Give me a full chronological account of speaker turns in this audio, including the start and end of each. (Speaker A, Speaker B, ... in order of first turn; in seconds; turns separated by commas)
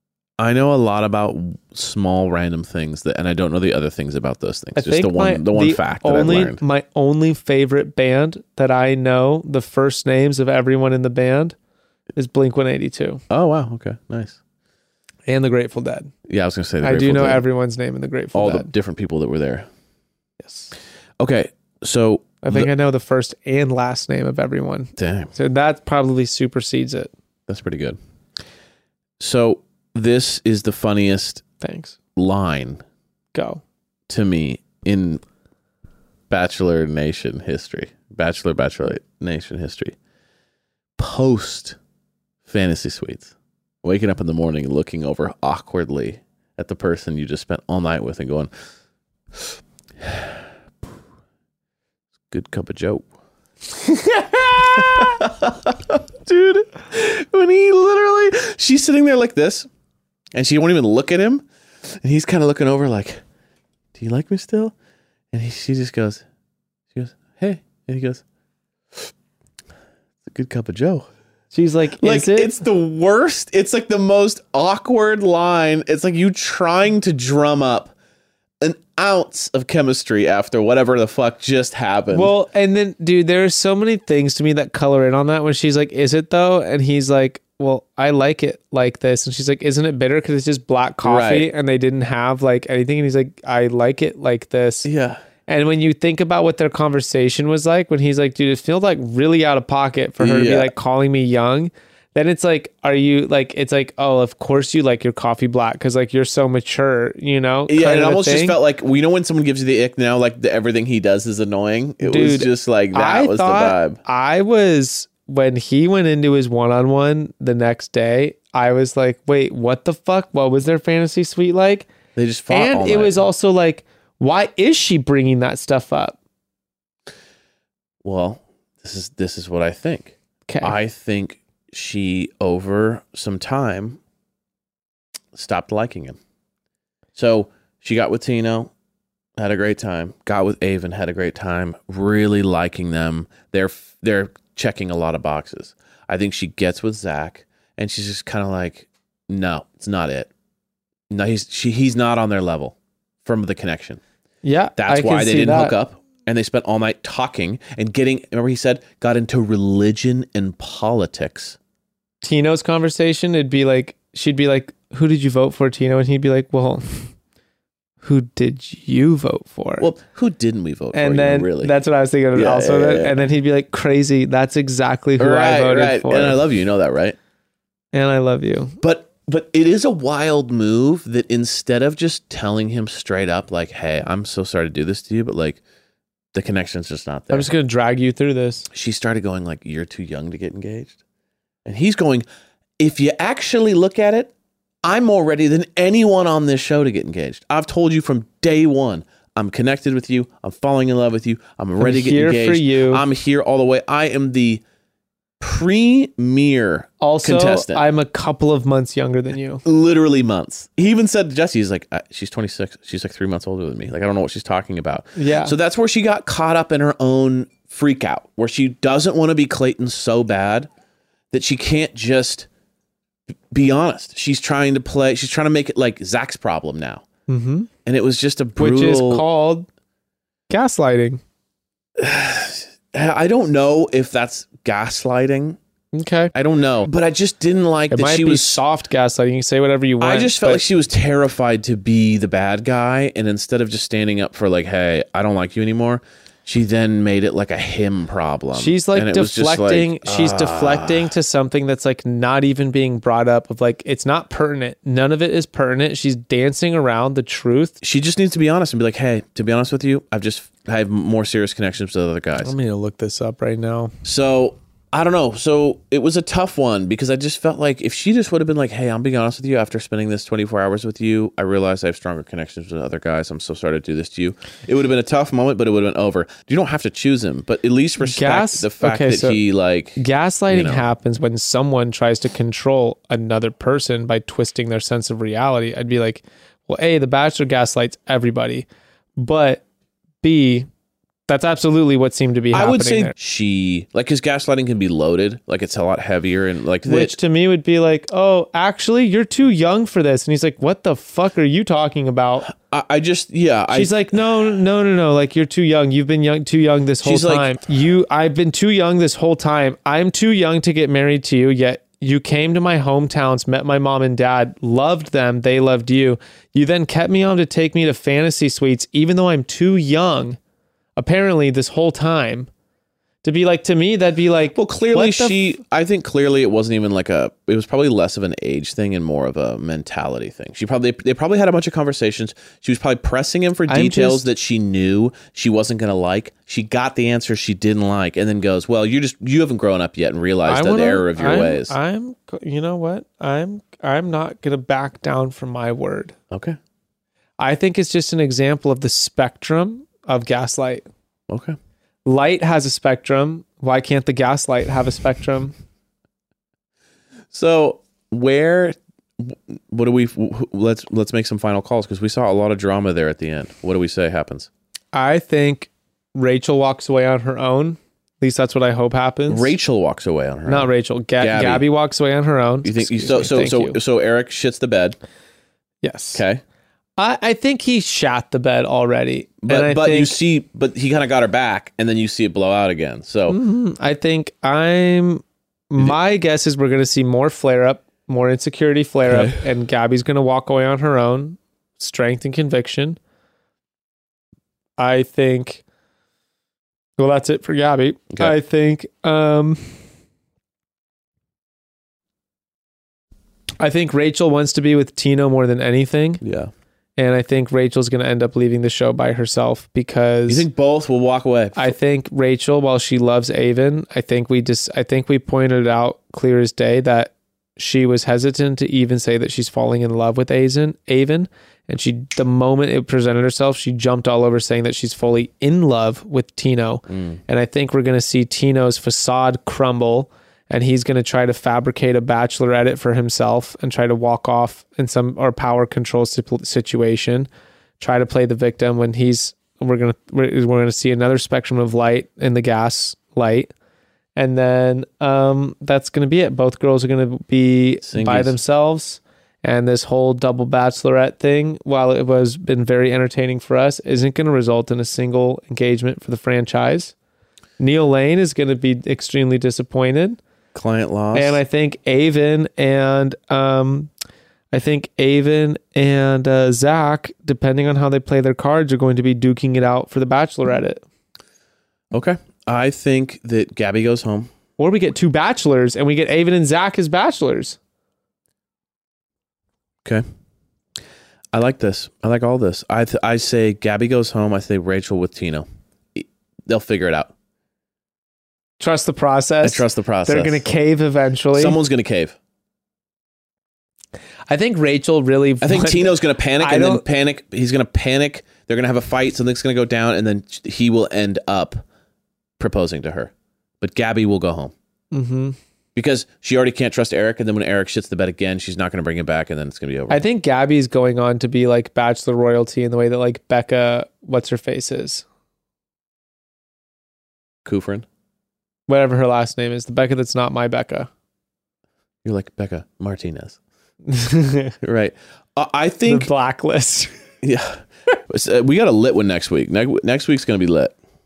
Speaker A: 0.4-6.6, Speaker B: 4.8-11.5, Speaker B: 12.2-13.2, Speaker A: 13.3-14.4, Speaker B: 15.3-16.1, Speaker A: 16.3-17.4, Speaker B: 16.8-18.7, Speaker A: 18.3-19.7, Speaker B: 20.4-20.7, Speaker A: 21.2-22.7, Speaker B: 22.4-27.1, Speaker A: 25.0-25.3, Speaker A: 27.5-28.0, Speaker A: 29.2-31.4, Speaker B: 31.6-31.9, Speaker A: 32.1-32.8, Speaker B: 33.3-33.6, Speaker A: 34.1-35.2, Speaker A: 36.3-39.9, Speaker A: 41.0-41.8, Speaker A: 42.4-43.3, Speaker A: 43.8-48.5, Speaker A: 50.0-50.3, Speaker A: 52.3-53.1, Speaker B: 53.8-55.0, Speaker A: 54.8-59.7, Speaker A: 60.3-61.4, Speaker A: 62.0-63.2, Speaker A: 63.9-64.7, Speaker A: 65.3-66.2, Speaker A: 66.9-68.2, Speaker A: 70.2-71.1, Speaker B: 71.5-72.5, Speaker A: 72.0-77.9, Speaker A: 78.6-82.3, Speaker B: 82.1-94.9, Speaker A: 91.0-91.5, Speaker A: 94.8-95.2, Speaker B: 95.5-108.6, Speaker A: 100.2-100.7, Speaker A: 107.7-114.0, Speaker B: 112.0-121.9, Speaker A: 122.2-123.2, Speaker B: 122.5-126.2, Speaker A: 128.0-134.0, Speaker B: 130.5-130.8, Speaker A: 135.3-136.2, Speaker A: 137.2-138.7, Speaker A: 139.4-150.3, Speaker A: 151.1-154.0, Speaker B: 154.4-155.8, Speaker A: 154.8-161.6, Speaker B: 162.2-167.1, Speaker B: 168.0-169.9, Speaker A: 169.8-171.7, Speaker B: 170.9-176.4, Speaker A: 172.3-173.2, Speaker A: 175.2-177.2, Speaker B: 177.9-178.7, Speaker A: 178.8-185.6, Speaker A: 186.3-187.5, Speaker B: 187.3-188.7, Speaker A: 188.7-190.9, Speaker A: 191.6-192.2, Speaker A: 192.8-194.3, Speaker A: 194.8-204.6, Speaker B: 201.8-203.0, Speaker A: 205.4-207.8, Speaker B: 207.0-209.6, Speaker A: 209.6-220.7, Speaker B: 215.2-215.5, Speaker A: 221.3-222.5, Speaker A: 223.5-227.0, Speaker B: 227.3-227.7, Speaker A: 227.8-229.2, Speaker B: 228.6-229.7, Speaker B: 230.5-231.2, Speaker A: 232.0-235.6, Speaker B: 235.9-236.3, Speaker A: 236.3-238.6, Speaker B: 237.9-240.6, Speaker A: 240.0-251.0, Speaker B: 248.5-257.8, Speaker A: 257.8-262.5, Speaker B: 262.4-263.9, Speaker A: 264.0-280.8, Speaker B: 278.0-279.4, Speaker B: 280.0-288.6, Speaker B: 289.2-289.6, Speaker B: 290.2-290.7, Speaker B: 291.3-293.1, Speaker A: 292.5-297.1, Speaker B: 296.8-302.5, Speaker A: 302.5-303.9, Speaker B: 303.7-320.4, Speaker A: 307.0-307.5, Speaker B: 320.9-322.5, Speaker B: 323.2-325.5, Speaker A: 324.5-341.7, Speaker B: 333.7-334.2, Speaker B: 340.4-346.1, Speaker A: 346.3-346.6, Speaker B: 347.4-350.9, Speaker A: 351.3-351.6, Speaker B: 352.1-355.5, Speaker A: 357.3-364.5, Speaker B: 364.9-369.5, Speaker A: 369.3-371.6, Speaker B: 370.5-373.8, Speaker A: 372.6-375.0, Speaker B: 375.8-376.2, Speaker A: 376.1-376.4, Speaker B: 377.0-380.1, Speaker A: 379.4-383.4, Speaker B: 383.3-393.0, Speaker A: 389.1-389.4, Speaker B: 394.8-395.6, Speaker B: 397.0-399.7, Speaker B: 403.6-406.2, Speaker A: 406.2-406.5, Speaker B: 407.0-410.5, Speaker A: 410.3-411.7, Speaker B: 411.6-437.3, Speaker A: 426.9-427.2, Speaker B: 437.8-443.5, Speaker B: 444.1-456.9, Speaker A: 447.9-448.3, Speaker B: 457.6-460.2, Speaker A: 460.5-461.4, Speaker B: 461.1-463.9, Speaker B: 464.5-470.8, Speaker A: 471.9-474.3, Speaker B: 474.6-477.6, Speaker A: 481.3-487.1, Speaker B: 488.6-491.6, Speaker A: 489.4-490.4, Speaker A: 491.3-492.1, Speaker B: 494.3-496.8, Speaker A: 495.4-501.6, Speaker A: 502.4-504.5, Speaker B: 504.9-505.4, Speaker A: 505.7-510.0, Speaker B: 509.9-515.0, Speaker A: 517.4-517.9, Speaker B: 518.7-520.9, Speaker A: 522.0-523.4, Speaker B: 523.9-524.5, Speaker A: 524.6-526.1, Speaker B: 525.9-526.9, Speaker A: 527.2-530.7